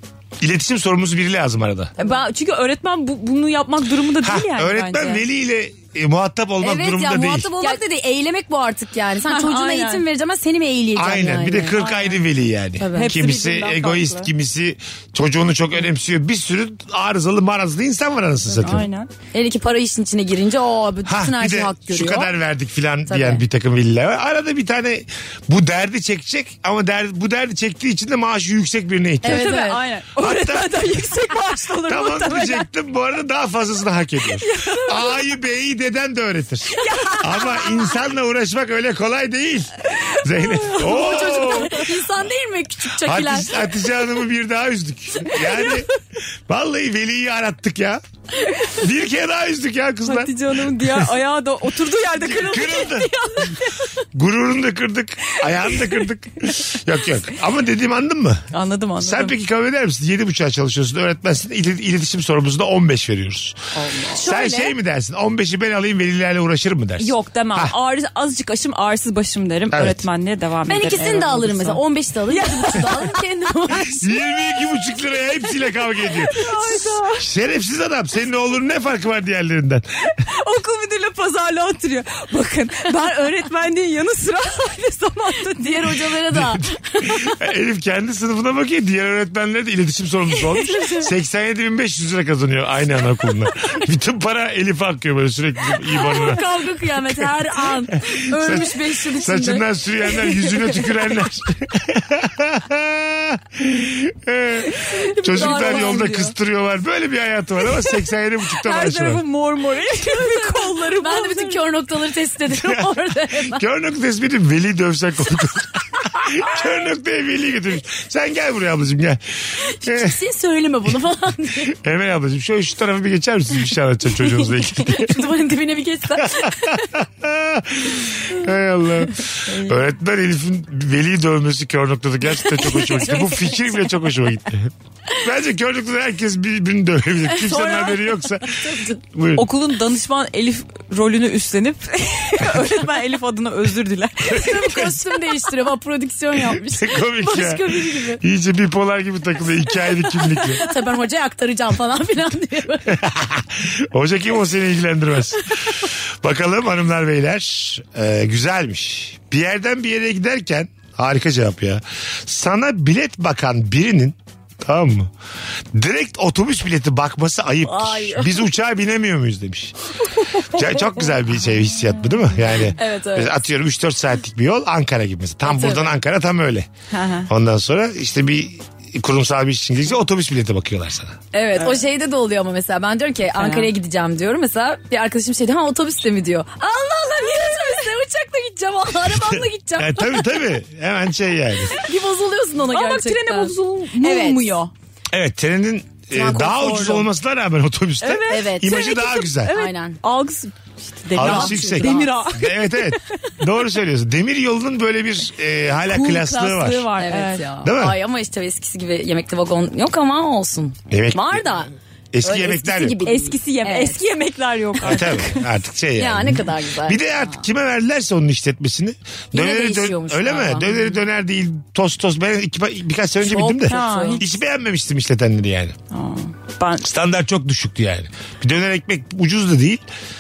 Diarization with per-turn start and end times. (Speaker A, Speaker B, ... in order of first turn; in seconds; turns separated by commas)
Speaker A: 0.4-1.9, Speaker B: 2.0-5.2, Speaker A: 4.2-7.5, Speaker C: 6.6-11.8, Speaker B: 9.2-10.1, Speaker A: 11.0-18.9, Speaker B: 11.8-12.2, Speaker C: 12.8-13.1, Speaker B: 12.9-14.3, Speaker B: 18.6-19.1, Speaker C: 19.3-22.3, Speaker A: 21.1-29.6, Speaker C: 23.1-23.4, Speaker C: 29.2-29.8, Speaker B: 29.2-32.7, Speaker A: 30.2-31.0, Speaker A: 31.9-41.9, Speaker B: 34.4-35.2, Speaker B: 36.8-37.9, Speaker B: 40.3-41.8, Speaker C: 40.8-43.5, Speaker A: 43.0-45.9, Speaker A: 46.5-48.0, Speaker A: 48.8-51.1, Speaker B: 50.0-53.8, Speaker A: 52.2-53.5, Speaker A: 54.1-58.4, Speaker B: 58.5-59.4, Speaker A: 59.0-63.6, Speaker C: 63.8-64.7, Speaker B: 64.2-64.5, Speaker A: 64.2-67.7, Speaker B: 67.0-73.2, Speaker A: 69.7-70.0, Speaker C: 70.7-74.1, Speaker A: 74.0-76.3, Speaker B: 76.1-77.2, Speaker A: 77.2-79.8, Speaker B: 80.2-86.0, Speaker C: 85.6-87.3, Speaker A: 86.3-96.4, Speaker B: 90.6-91.0, Speaker C: 95.9-99.6, Speaker A: 98.3-109.2, Speaker C: 105.2-106.3, Speaker B: 105.2-106.3, Speaker B: 108.6-111.7, Speaker C: 110.0-113.6, Speaker A: 112.5-119.2, Speaker C: 119.7-121.7, Speaker A: 119.8-120.2, Speaker A: 121.6-125.3, Speaker C: 124.8-126.8, Speaker A: 126.2-138.6, Speaker B: 129.5-129.8, Speaker B: 132.7-133.7, Speaker C: 137.5-137.9, Speaker B: 137.7-137.9, Speaker C: 138.5-139.0, Speaker A: 139.1-139.5, Speaker B: 139.3-144.9, Speaker C: 144.3-148.2, Speaker A: 146.7-150.6, Speaker C: 150.6-153.0, Speaker A: 152.9-165.1, Speaker A: 165.7-169.7, Speaker C: 167.7-168.3, Speaker A: 170.5-176.7, Speaker C: 172.8-173.4, Speaker C: 175.5-175.9, Speaker B: 176.9-177.3, Speaker A: 177.3-181.2, Speaker C: 181.3-190.4, Speaker B: 181.6-181.8, Speaker B: 183.3-183.7, Speaker B: 187.3-187.8, Speaker A: 189.1-191.8, Speaker C: 191.7-194.5, Speaker B: 192.7-194.7, Speaker A: 195.1-199.5, Speaker C: 196.1-197.1, Speaker B: 198.0-203.0, Speaker C: 198.3-200.0, Speaker A: 201.2-206.9, Speaker C: 201.2-202.1, Speaker B: 205.9-207.5, Speaker C: 207.0-211.7, Speaker A: 207.6-208.0, Speaker A: 210.9-213.0, Speaker C: 212.2-214.0, Speaker B: 213.0-215.4, Speaker A: 214.8-225.8, Speaker C: 216.0-217.4, Speaker C: 219.3-220.9, Speaker C: 223.2-224.2, Speaker B: 223.7-224.3, Speaker B: 225.9-226.9, Speaker A: 226.8-229.8